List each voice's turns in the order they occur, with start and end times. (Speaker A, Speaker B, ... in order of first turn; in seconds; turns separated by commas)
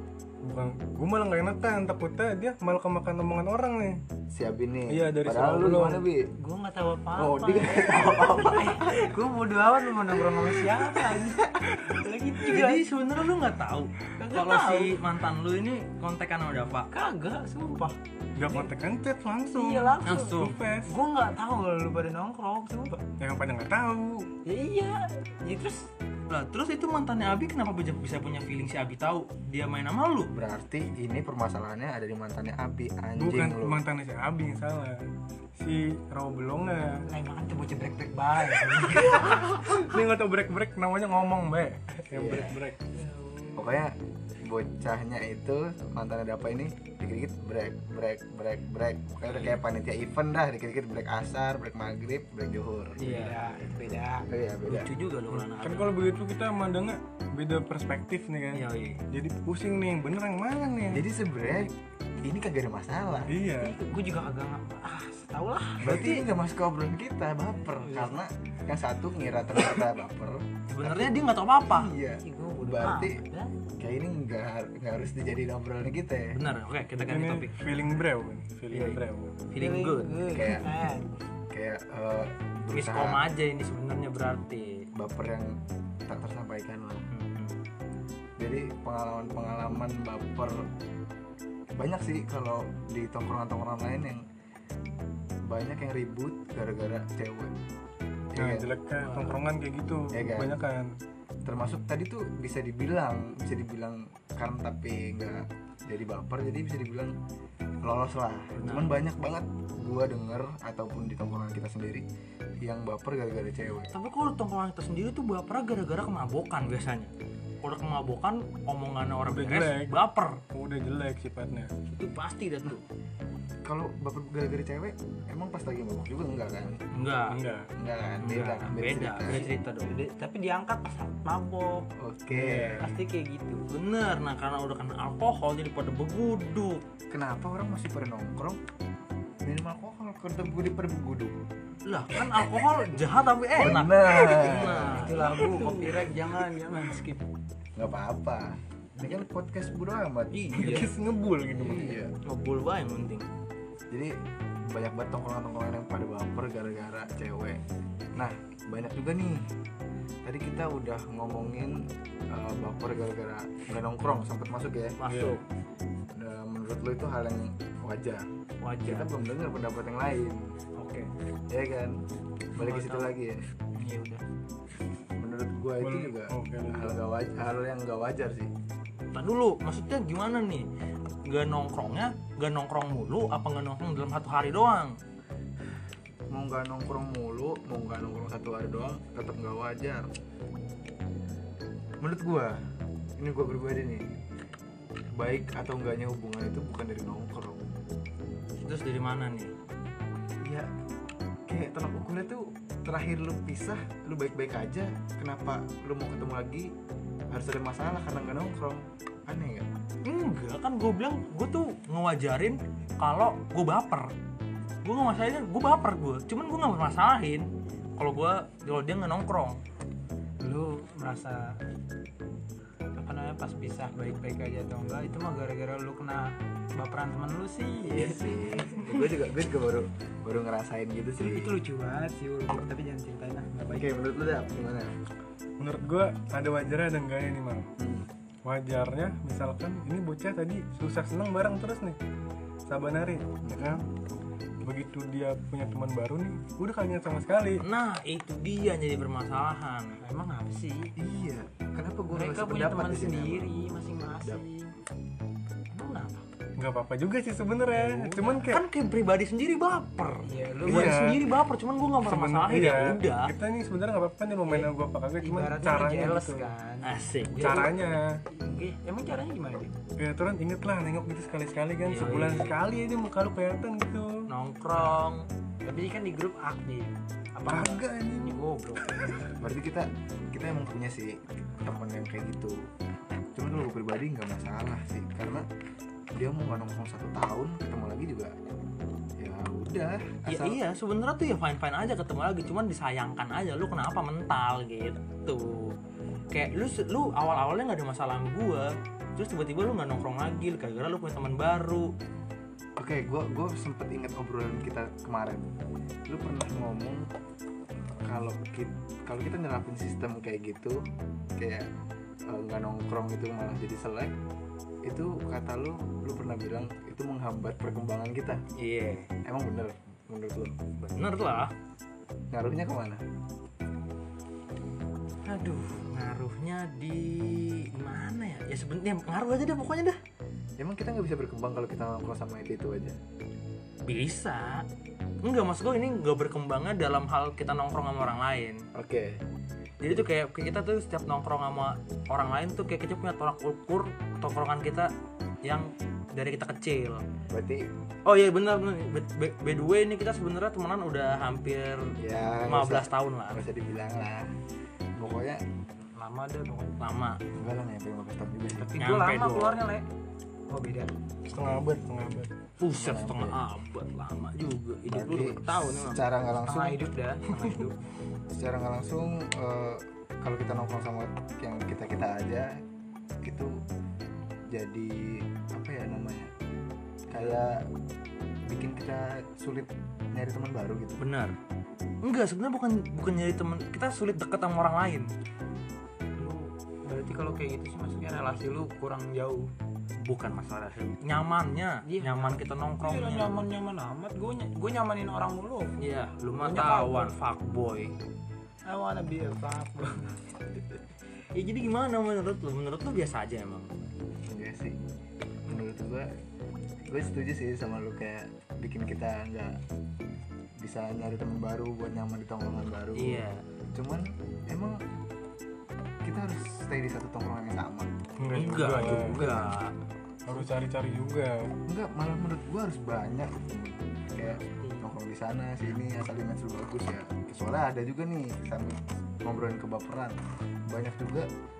Speaker A: 0.4-4.0, Speaker B: 4.3-6.3, Speaker A: 4.9-6.0, Speaker C: 6.4-12.8, Speaker B: 7.2-9.1, Speaker D: 12.5-16.9, Speaker C: 14.2-15.0, Speaker C: 16.9-18.7, Speaker A: 18.4-20.9, Speaker C: 19.5-23.0, Speaker D: 20.0-20.6, Speaker A: 23.2-24.3, Speaker C: 24.4-25.9, Speaker D: 26.3-30.3, Speaker B: 30.3-33.8, Speaker A: 33.2-35.0, Speaker A: 35.6-37.0, Speaker C: 37.0-39.6, Speaker A: 39.2-42.9, Speaker B: 42.1-42.6, Speaker C: 42.9-43.6, Speaker B: 43.5-53.0, Speaker D: 49.2-49.6, Speaker C: 53.0-54.2, Speaker D: 53.0-53.5, Speaker B: 54.3-54.9, Speaker D: 54.6-56.0, Speaker A: 55.3-61.1, Speaker D: 58.5-59.0, Speaker B: 60.9-63.3, Speaker A: 63.3-63.8, Speaker C: 63.6-66.3, Speaker B: 65.8-73.2, Speaker C: 67.8-68.2, Speaker D: 70.7-71.9, Speaker C: 72.0-73.5, Speaker B: 73.8-76.4, Speaker D: 76.3-77.6, Speaker A: 77.0-79.4, Speaker D: 78.7-80.2, Speaker C: 79.5-81.1, Speaker B: 80.3-80.7, Speaker B: 81.5-83.2, Speaker D: 82.7-84.8, Speaker B: 85.0-87.1, Speaker D: 87.1-87.6, Speaker B: 88.4-90.7, Speaker B: 91.8-94.2, Speaker B: 95.5-97.5, Speaker B: 98.3-98.7, Speaker A: 98.3-100.9, Speaker D: 99.0-99.4, Speaker B: 100.1-100.5, Speaker B: 101.4-107.1, Speaker B: 107.8-112.0, Speaker D: 108.5-109.0, Speaker B: 112.6-113.9, Speaker D: 113.9-117.1, Speaker D: 117.6-120.4, Speaker A: 119.2-119.9, Speaker A: 120.5-121.7, Speaker D: 121.9-122.8, Speaker B: 123.6-126.8, Speaker D: 126.9-127.3, Speaker A: 127.3-127.7, Speaker B: 127.8-129.4, Speaker D: 128.2-129.9, Speaker C: 129.3-131.9, Speaker B: 132.0-132.9, Speaker A: 132.3-132.9, Speaker C: 132.8-133.6, Speaker D: 133.7-136.8, Speaker B: 137.1-138.6, Speaker B: 139.4-141.4, Speaker D: 141.9-145.3, Speaker B: 143.6-145.2, Speaker C: 144.7-147.2, Speaker A: 145.4-146.0, Speaker B: 147.8-150.8, Speaker D: 150.3-150.9, Speaker A: 150.5-152.0, Speaker B: 151.6-152.1, Speaker D: 152.2-153.2, Speaker B: 154.7-157.6, Speaker B: 158.2-159.4, Speaker B: 160.2-164.9, Speaker D: 165.0-165.4, Speaker A: 165.1-165.4, Speaker B: 166.1-168.3, Speaker D: 168.6-169.1, Speaker B: 168.8-170.5, Speaker D: 170.8-171.1, Speaker B: 171.5-172.0, Speaker B: 172.5-173.4, Speaker D: 172.6-173.0, Speaker C: 173.8-174.2, Speaker B: 175.2-178.5, Speaker A: 175.8-177.0, Speaker D: 179.1-180.7, Speaker D: 181.2-185.0, Speaker B: 186.3-190.1, Speaker B: 192.0-192.6, Speaker B: 193.2-194.1, Speaker B: 195.2-197.7, Speaker D: 198.7-199.5, Speaker B: 201.5-206.7, Speaker B: 207.3-209.7, Speaker D: 210.0-214.1, Speaker D: 214.8-219.6, Speaker C: 220.4-221.6, Speaker C: 222.9-228.3, Speaker B: 227.8-231.5, Speaker C: 231.2-233.9, Speaker B: 233.7-234.9, Speaker A: 235.6-237.7, Speaker B: 237.8-238.1, Speaker A: 238.4-242.0, Speaker A: 242.7-243.8, Speaker B: 243.4-243.8, Speaker A: 244.6-247.6, Speaker D: 247.6-249.9, Speaker C: 250.0-250.9, Speaker B: 251.0-253.5, Speaker C: 252.1-254.7, Speaker C: 255.7-256.2, Speaker A: 256.6-258.6, Speaker C: 257.7-258.4, Speaker D: 258.4-263.3, Speaker C: 260.2-261.0, Speaker A: 260.6-261.3, Speaker A: 262.1-266.5, Speaker C: 264.4-269.7, Speaker D: 266.8-267.7, Speaker A: 267.4-268.2, Speaker A: 270.0-274.2, Speaker D: 271.9-272.6, Speaker D: 274.3-275.3, Speaker C: 274.7-275.0, Speaker C: 275.6-278.9, Speaker A: 277.5-279.3, Speaker B: 279.4-282.7, Speaker B: 283.3-285.4, Speaker B: 286.1-288.3, Speaker B: 289.2-290.6, Speaker D: 290.3-295.8, Speaker D: 296.3-301.9, Speaker B: 302.8-305.5, Speaker B: 306.1-307.1, Speaker B: 308.0-310.8, Speaker B: 311.4-311.7, Speaker B: 312.3-314.2, Speaker B: 314.8-318.4, Speaker D: 318.6-319.1, Speaker B: 319.2-320.6, Speaker D: 320.8-321.5, Speaker B: 322.3-323.0, Speaker D: 325.2-330.0, Speaker B: 330.6-333.0, Speaker D: 333.9-334.6, Speaker D: 335.2-338.6, Speaker B: 338.7-339.2, Speaker D: 339.8-344.9, Speaker D: 345.4-347.0, Speaker B: 347.3-347.7, Speaker D: 348.1-353.4, Speaker B: 352.0-354.3, Speaker B: 354.9-355.4, Speaker C: 355.9-356.8, Speaker D: 356.8-357.2, Speaker B: 357.3-358.7, Speaker C: 358.6-359.9, Speaker D: 358.8-359.6, Speaker C: 360.5-360.9, Speaker A: 361.2-362.3, Speaker D: 362.6-366.1, Speaker B: 362.7-363.4, Speaker B: 364.9-366.8, Speaker C: 366.4-367.8, Speaker D: 367.3-367.7, Speaker B: 368.3-372.5, Speaker B: 373.2-373.6, Speaker B: 374.5-376.3, Speaker B: 377.1-377.7, Speaker B: 378.4-381.0, Speaker D: 381.0-381.3, Speaker D: 382.0-385.1, Speaker C: 386.2-389.5, Speaker D: 390.0-393.4, Speaker C: 391.8-395.8, Speaker D: 395.8-397.9, Speaker C: 396.4-397.2, Speaker C: 398.6-400.1, Speaker D: 401.3-403.7, Speaker B: 404.3-404.8, Speaker B: 405.4-406.1, Speaker B: 406.9-409.6, Speaker B: 410.6-414.8, Speaker D: 412.9-413.4, Speaker B: 416.0-417.9, Speaker A: 418.2-419.2, Speaker D: 418.3-419.7, Speaker B: 418.8-419.6, Speaker A: 420.2-421.5, Speaker B: 421.7-431.3, Speaker C: 424.2-424.9